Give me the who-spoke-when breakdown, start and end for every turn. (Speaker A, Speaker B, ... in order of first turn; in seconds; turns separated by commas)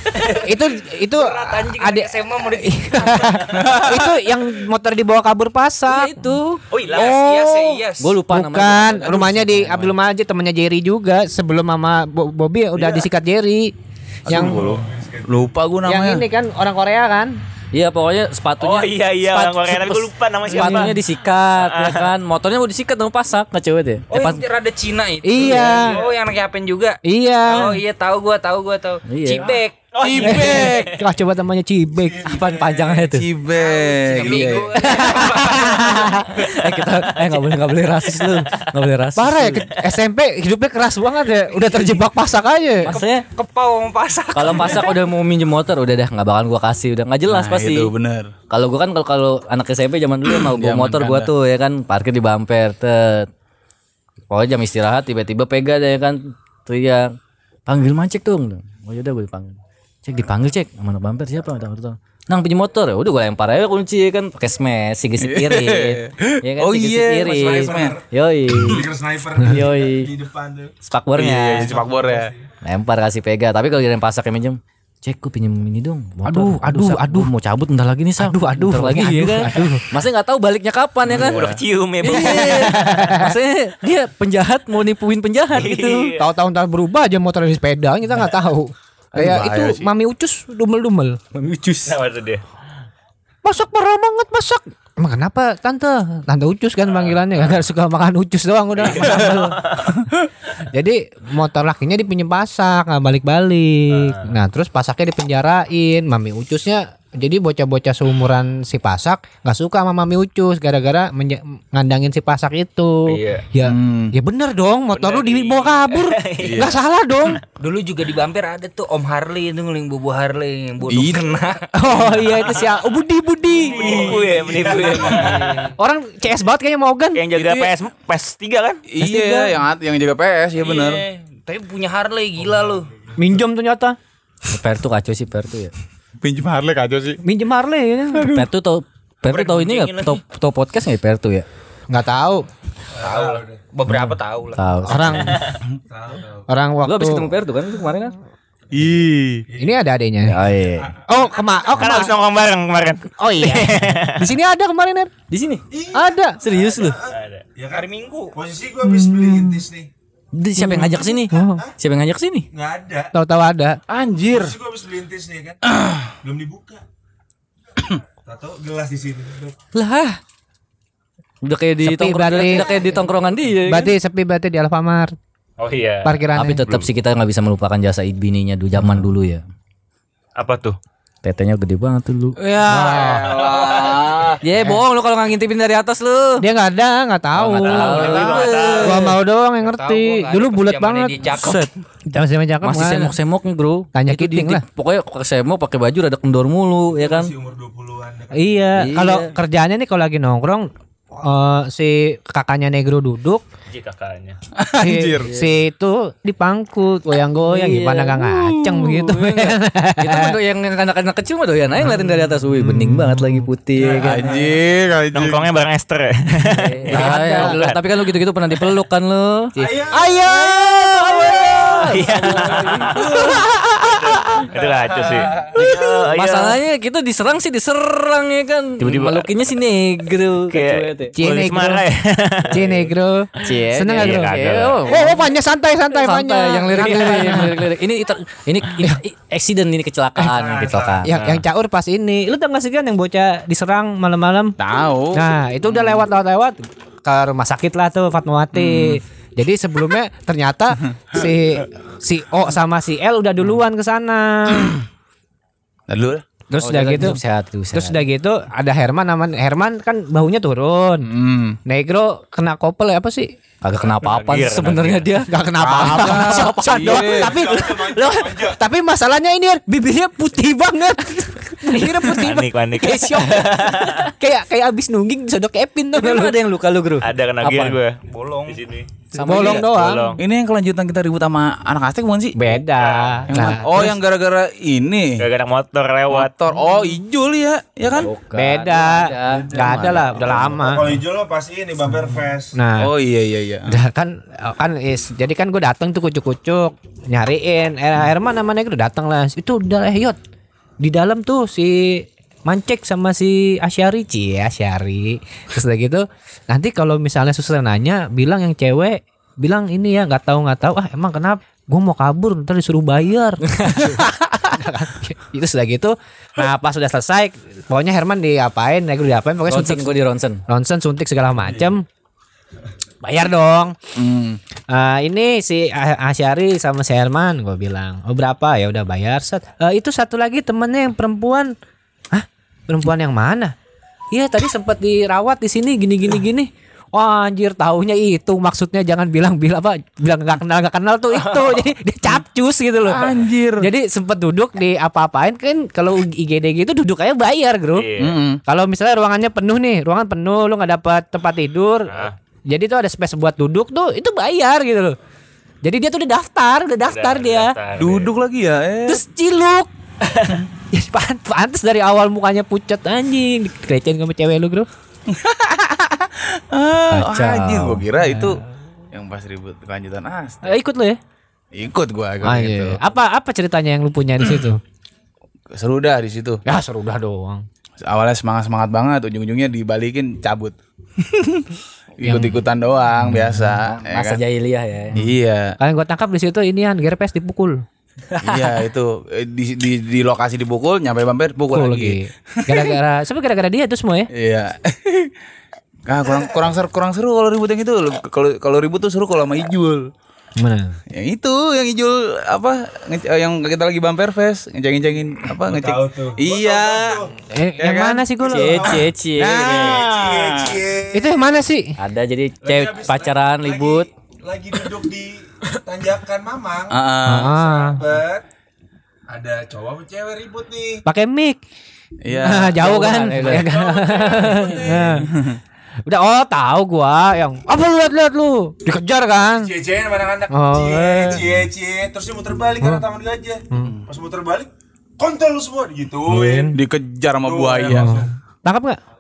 Speaker A: 0.1-0.5, Speaker B: 0.2-6.3, Speaker A: 1.1-3.4, Speaker C: 3.5-4.1, Speaker D: 5.9-7.1, Speaker A: 6.7-8.2, Speaker E: 6.8-7.2, Speaker C: 6.9-7.8, Speaker D: 7.9-9.9, Speaker B: 8.3-13.7, Speaker C: 14.3-16.2, Speaker B: 14.3-14.6, Speaker F: 14.3-15.5, Speaker B: 15.8-17.4, Speaker D: 17.7-19.5, Speaker E: 18.6-21.0, Speaker B: 19.3-20.9, Speaker D: 20.5-24.4, Speaker E: 21.6-22.1, Speaker A: 24.1-29.9, Speaker B: 25.2-26.0, Speaker F: 25.7-26.1, Speaker B: 27.1-27.8, Speaker D: 29.1-29.6, Speaker E: 29.9-31.0, Speaker C: 30.0-30.9, Speaker B: 30.2-32.3, Speaker F: 32.0-33.2, Speaker D: 32.3-33.3, Speaker C: 33.1-34.7, Speaker A: 33.6-36.2, Speaker F: 34.0-35.1, Speaker B: 34.8-36.3, Speaker D: 36.3-39.7, Speaker E: 36.8-37.5, Speaker E: 38.1-38.6, Speaker B: 39.2-42.9, Speaker D: 42.8-43.2, Speaker A: 42.9-45.1, Speaker D: 44.3-47.9, Speaker C: 47.3-48.3, Speaker D: 48.5-53.3, Speaker C: 50.3-51.3, Speaker D: 54.3-57.1, Speaker D: 57.7-68.9, Speaker C: 65.2-68.0, Speaker F: 67.2-70.8, Speaker D: 69.4-70.1, Speaker D: 70.9-71.7, Speaker C: 71.1-72.3, Speaker F: 71.5-72.5, Speaker D: 72.6-81.4, Speaker B: 76.2-77.3, Speaker B: 78.2-79.9, Speaker C: 81.0-81.6, Speaker E: 81.1-83.1, Speaker D: 82.0-86.1, Speaker B: 82.5-83.3, Speaker E: 85.5-86.2, Speaker B: 86.2-91.2, Speaker C: 89.1-89.9, Speaker D: 91.3-92.0, Speaker E: 91.8-92.4, Speaker B: 93.4-99.7, Speaker E: 98.8-100.0, Speaker B: 100.7-117.4, Speaker E: 103.9-104.3, Speaker E: 113.1-113.5, Speaker C: 113.6-114.1, Speaker E: 114.9-116.7, Speaker C: 116.4-116.8, Speaker A: 117.6-122.5, Speaker C: 120.9-121.3, Speaker B: 121.8-123.9, Speaker F: 123.6-125.5, Speaker E: 123.6-125.5, Speaker A: 123.8-125.7, Speaker B: 125.8-127.2, Speaker E: 127.2-128.8, Speaker C: 127.3-127.7, Speaker C: 128.9-131.0, Speaker B: 129.0-129.4, Speaker A: 130.6-132.9, Speaker F: 132.5-133.2, Speaker B: 133.2-134.0, Speaker D: 134.5-135.7, Speaker C: 136.2-137.2, Speaker B: 137.2-138.4, Speaker C: 138.1-138.5, Speaker D: 138.2-141.5, Speaker A: 139.3-140.2, Speaker B: 141.9-142.5, Speaker F: 142.9-143.7, Speaker A: 143.0-144.7, Speaker D: 143.9-145.4, Speaker B: 144.9-145.4, Speaker F: 145.9-146.5, Speaker B: 146.5-147.3, Speaker D: 146.8-148.2, Speaker C: 148.7-149.5, Speaker F: 149.5-149.8, Speaker B: 149.6-150.4, Speaker D: 150.3-150.9, Speaker F: 150.7-152.1, Speaker B: 151.1-152.2, Speaker E: 151.8-154.3, Speaker B: 153.2-155.1, Speaker D: 155.3-155.7, Speaker F: 155.7-159.9, Speaker B: 155.9-156.4, Speaker D: 156.4-157.0, Speaker E: 157.1-157.4, Speaker A: 157.7-158.4, Speaker B: 158.8-159.6, Speaker D: 160.3-162.5, Speaker B: 160.6-161.6, Speaker F: 161.0-161.7, Speaker F: 162.5-163.1, Speaker B: 163.1-163.8, Speaker C: 163.9-164.6, Speaker F: 164.3-165.6, Speaker C: 165.7-166.1, Speaker F: 166.2-166.8, Speaker F: 168.2-169.6, Speaker D: 169.7-170.2, Speaker D: 171.4-173.9, Speaker B: 171.8-172.8, Speaker F: 172.6-173.1, Speaker B: 173.7-175.2, Speaker E: 175.6-176.9, Speaker B: 176.1-176.7, Speaker D: 176.3-179.4, Speaker E: 180.4-180.8, Speaker D: 181.2-182.4, Speaker C: 182.4-184.8, Speaker B: 182.7-183.3, Speaker D: 184.4-186.4, Speaker B: 186.4-188.3, Speaker D: 187.4-189.2, Speaker E: 187.6-189.0, Speaker A: 188.0-189.0, Speaker B: 188.8-193.2, Speaker A: 189.6-191.6, Speaker D: 192.6-197.3, Speaker B: 193.9-194.6, Speaker F: 196.9-198.9, Speaker B: 198.3-203.4, Speaker D: 198.8-199.3, Speaker E: 203.7-204.4, Speaker C: 204.6-205.3, Speaker B: 204.8-210.4, Speaker D: 205.2-205.5, Speaker D: 207.3-214.4, Speaker B: 212.6-213.4, Speaker F: 213.7-214.6, Speaker C: 214.0-215.5, Speaker E: 215.1-217.8, Speaker D: 216.4-219.6, Speaker B: 216.9-217.6, Speaker F: 219.6-220.2, Speaker B: 219.6-221.5, Speaker D: 220.2-223.5, Speaker E: 221.9-226.6, Speaker F: 225.3-226.0, Speaker D: 225.4-231.1, Speaker E: 228.8-229.3, Speaker E: 230.5-232.8, Speaker B: 231.2-231.9, Speaker B: 232.5-234.3, Speaker D: 233.4-235.3, Speaker E: 233.9-234.9, Speaker B: 234.9-237.7, Speaker D: 235.9-241.1, Speaker F: 240.2-241.0, Speaker B: 241.0-244.6, Speaker E: 241.1-241.4, Speaker C: 244.6-246.0, Speaker B: 245.1-254.8, Speaker C: 248.5-249.0, Speaker C: 255.9-256.2, Speaker B: 256.5-257.2, Speaker D: 256.6-258.0, Speaker B: 257.7-261.1, Speaker C: 261.0-261.6, Speaker B: 261.7-263.3, Speaker D: 263.6-265.3, Speaker E: 263.9-265.2, Speaker B: 265.3-276.4, Speaker C: 265.6-267.4, Speaker D: 265.8-266.3, Speaker F: 266.7-268.6, Speaker E: 271.8-274.1, Speaker D: 275.9-277.8, Speaker E: 277.0-280.2, Speaker A: 278.1-278.6, Speaker D: 279.1-279.6, Speaker C: 279.2-279.6, Speaker B: 279.2-280.1, Speaker C: 280.2-282.4, Speaker B: 282.4-283.9, Speaker E: 282.8-283.3, Speaker C: 283.3-285.2, Speaker E: 285.2-286.3, Speaker C: 286.1-288.1, Speaker D: 287.9-289.5, Speaker B: 288.4-291.0, Speaker F: 289.2-292.6, Speaker C: 289.5-290.6, Speaker B: 292.5-292.9, Speaker C: 292.8-293.8, Speaker B: 293.7-300.2, Speaker B: 300.8-321.8, Speaker D: 313.4-314.0, Speaker D: 319.5-320.4, Speaker B: 323.0-323.8, Speaker C: 323.9-324.4, Speaker B: 324.7-331.6, Speaker B: 332.1-333.5, Speaker B: 334.1-347.9, Speaker E: 341.1-341.6, Speaker C: 342.8-343.7, Speaker E: 347.7-348.2, Speaker C: 348.0-348.4, Speaker B: 348.5-355.0, Speaker E: 351.9-352.1, Speaker B: 355.6-357.5, Speaker E: 356.9-358.1, Speaker C: 357.8-359.0, Speaker B: 358.9-359.7, Speaker B: 360.7-364.7, Speaker C: 365.1-368.4, Speaker D: 366.9-367.8, Speaker B: 368.1-368.4, Speaker C: 368.9-370.6, Speaker B: 370.4-371.0, Speaker C: 371.5-372.8, Speaker B: 372.2-374.6, Speaker C: 375.5-376.4, Speaker B: 376.5-377.4, Speaker C: 377.8-384.2, Speaker B: 382.0-382.4, Speaker D: 383.6-385.0, Speaker C: 384.9-385.6, Speaker B: 385.6-387.6, Speaker D: 388.1-388.6, Speaker C: 388.2-392.8, Speaker B: 391.5-394.1, Speaker C: 394.1-395.1, Speaker C: 395.9-399.9, Speaker B: 400.4-400.8, Speaker C: 400.9-410.6, Speaker F: 405.5-407.1, Speaker B: 407.3-408.7, Speaker D: 408.2-409.8, Speaker F: 408.3-408.9, Speaker F: 409.4-411.4, Speaker B: 410.9-411.8, Speaker D: 411.8-413.9, Speaker F: 412.4-418.2, Speaker C: 416.7-417.4, Speaker B: 417.1-417.8, Speaker F: 419.1-420.8, Speaker B: 420.9-421.4, Speaker C: 422.0-422.7, Speaker B: 422.2-425.1, Speaker D: 422.6-423.5, Speaker F: 423.4-425.0, Speaker C: 425.0-425.4, Speaker B: 425.9-429.5, Speaker F: 429.3-436.6, Speaker B: 430.3-431.2, Speaker C: 433.6-433.9, Speaker B: 436.1-436.6, Speaker C: 436.5-438.0, Speaker F: 437.2-438.1, Speaker B: 437.7-438.8